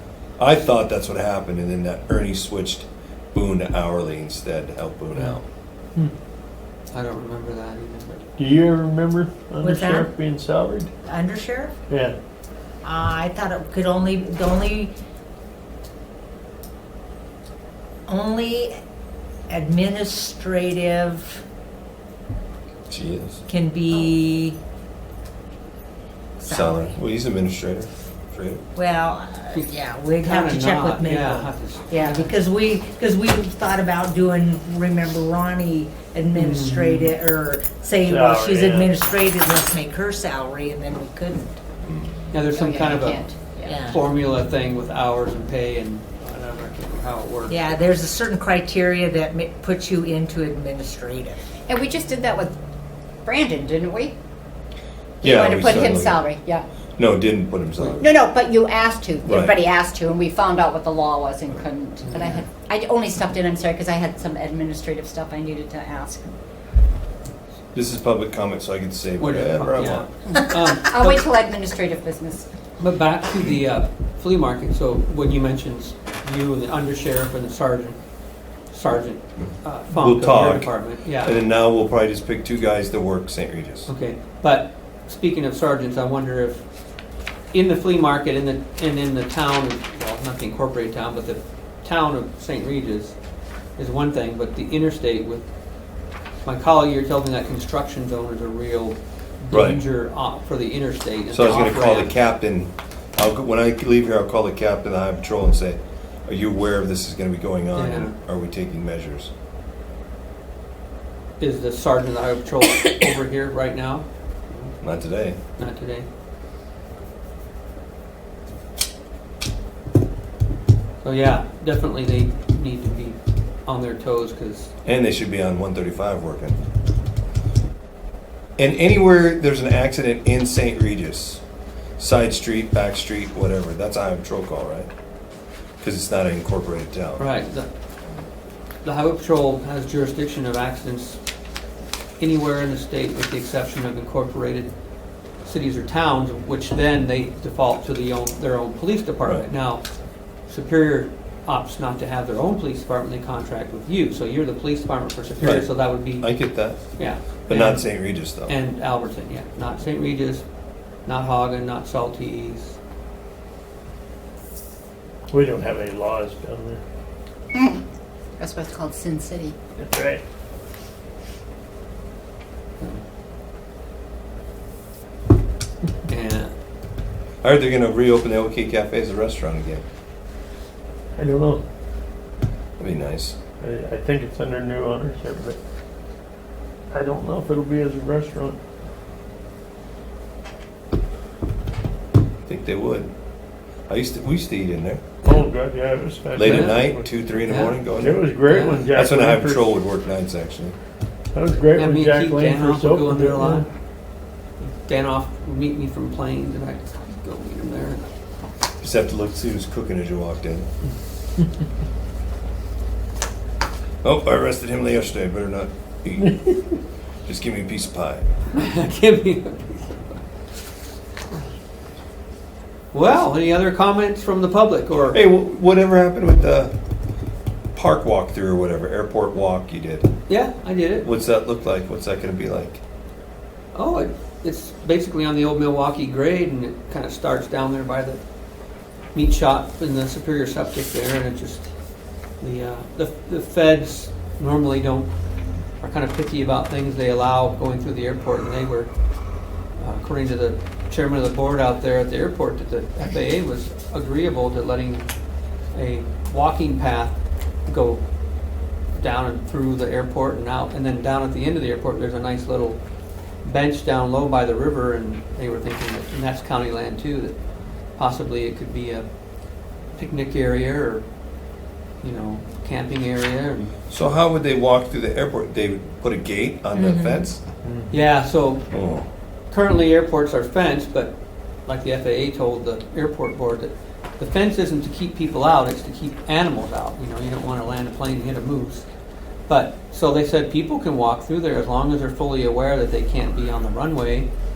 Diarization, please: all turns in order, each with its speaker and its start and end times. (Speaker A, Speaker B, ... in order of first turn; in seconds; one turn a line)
Speaker A: 0.4-5.4
Speaker B: 6.9-8.3
Speaker C: 8.4-10.9
Speaker D: 9.6-10.1
Speaker D: 11.1-11.7
Speaker C: 11.9-12.2
Speaker D: 12.8-14.9
Speaker D: 18.1-18.7
Speaker D: 19.5-21.4
Speaker A: 22.9-23.4
Speaker D: 23.5-24.6
Speaker D: 26.4-27.0
Speaker A: 26.5-28.6
Speaker D: 28.7-41.6
Speaker B: 29.5-32.3
Speaker B: 36.3-37.1
Speaker C: 38.0-38.9
Speaker A: 41.8-42.1
Speaker B: 42.3-47.8
Speaker E: 42.5-43.8
Speaker D: 43.6-44.0
Speaker D: 47.5-51.5
Speaker E: 51.7-52.5
Speaker E: 53.2-54.1
Speaker E: 55.2-56.6
Speaker A: 55.2-56.3
Speaker A: 57.0-58.2
Speaker E: 58.0-66.3
Speaker A: 59.2-59.6
Speaker B: 62.0-62.4
Speaker A: 67.7-70.1
Speaker B: 69.2-71.2
Speaker E: 70.2-72.5
Speaker B: 72.8-78.0
Speaker B: 78.7-81.3
Speaker A: 79.4-83.9
Speaker B: 83.9-86.6
Speaker B: 87.5-93.2
Speaker B: 93.8-95.5
Speaker B: 96.4-102.1
Speaker A: 99.5-99.8
Speaker A: 101.3-109.3
Speaker B: 107.7-108.1
Speaker B: 111.4-114.7
Speaker A: 114.8-115.4
Speaker B: 115.6-116.0
Speaker B: 121.0-124.7
Speaker A: 124.8-126.6
Speaker A: 128.6-131.4
Speaker A: 132.0-134.9
Speaker A: 135.8-137.2
Speaker B: 137.2-137.7
Speaker B: 138.8-141.2
Speaker B: 142.2-144.7
Speaker B: 145.4-149.8
Speaker B: 150.5-156.3
Speaker A: 155.4-156.8
Speaker B: 156.9-160.4
Speaker A: 157.5-158.5
Speaker B: 161.0-162.8
Speaker C: 165.3-166.8
Speaker E: 167.5-167.8
Speaker E: 168.4-169.5
Speaker C: 169.8-170.2
Speaker B: 176.1-176.5
Speaker A: 177.4-179.8
Speaker C: 181.2-181.6
Speaker A: 182.8-183.4
Speaker C: 183.6-185.6
Speaker C: 186.9-188.6
Speaker A: 192.4-193.1
Speaker A: 193.9-195.0
Speaker C: 195.2-197.1
Speaker A: 196.3-198.3
Speaker B: 196.4-196.8
Speaker B: 197.4-197.8
Speaker C: 198.0-199.8
Speaker B: 198.4-198.8
Speaker A: 198.9-200.8
Speaker C: 201.3-203.7
Speaker B: 201.7-203.7
Speaker B: 204.6-208.0
Speaker A: 208.8-210.7
Speaker A: 214.0-216.4
Speaker C: 216.3-216.6
Speaker A: 217.2-218.3
Speaker B: 218.5-219.9
Speaker B: 222.9-225.2
Speaker A: 225.1-226.7
Speaker A: 227.7-230.1
Speaker B: 230.3-231.1
Speaker A: 231.0-232.8
Speaker B: 233.7-238.2
Speaker B: 239.1-241.7
Speaker B: 242.4-245.1
Speaker B: 245.8-248.9
Speaker B: 249.8-255.1
Speaker B: 255.7-258.0
Speaker B: 258.9-262.8
Speaker B: 263.4-267.4
Speaker B: 268.0-269.1
Speaker B: 269.9-271.0
Speaker B: 272.0-273.7
Speaker A: 273.9-277.4
Speaker D: 276.7-277.3
Speaker B: 277.9-278.7
Speaker A: 278.7-279.1
Speaker B: 279.5-281.1
Speaker B: 281.6-288.9
Speaker B: 289.5-294.3